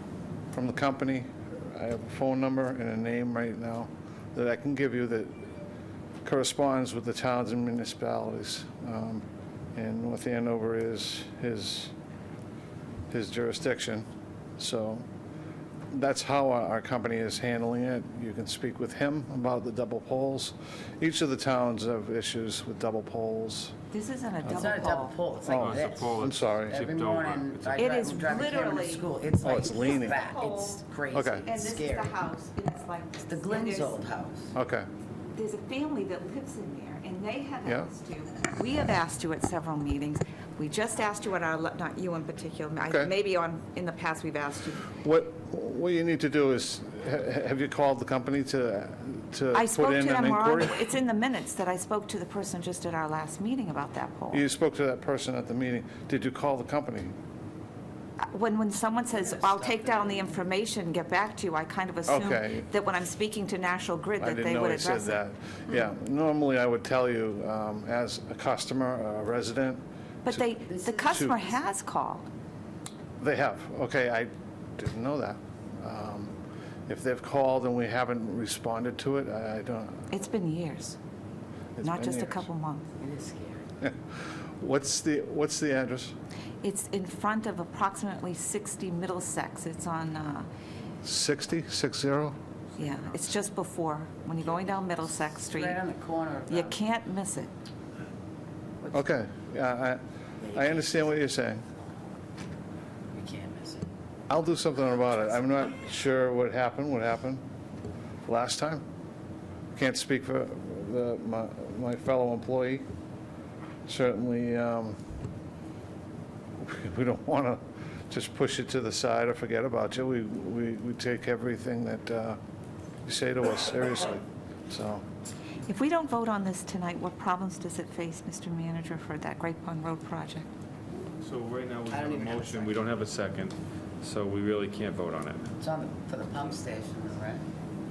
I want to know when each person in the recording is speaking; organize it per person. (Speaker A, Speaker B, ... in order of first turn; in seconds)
Speaker A: 0.5-5.3, 6.2-9.2, 9.7-11.9, 13.1-14.0, 14.6-15.0, 15.9-23.7, 25.4-26.8, 29.4-30.2, 31.1-31.5, 34.5-34.9, 45.0-50.9, 54.3-57.1, 62.1-62.7, 64.2-70.5, 71.1-71.4, 73.2-76.3, 76.9-80.0, 81.8-82.5, 84.6-86.1, 91.0-92.3, 98.9-100.0, 100.5-101.6, 104.3-107.4, 108.2-108.8, 109.7-112.8, 113.9-115.0, 116.6-122.4, 123.0-125.0
Speaker B: 23.9-25.2, 27.8-29.1, 29.7-30.8, 31.4-34.0, 35.4-45.0, 49.5-54.4, 58.3-65.2, 70.2-72.2, 80.1-81.0, 81.8-82.8, 86.6-90.5, 92.8-95.8, 96.5-97.5, 125.7-130.5
Speaker C: 24.4-32.2, 33.2-34.5, 59.2-60.3, 70.7-71.4, 83.0-83.6, 95.5-96.8, 100.4-101.0, 103.1-103.9, 131.9-132.9, 135.5-137.4
Speaker D: 25.5-27.9, 131.2-135.4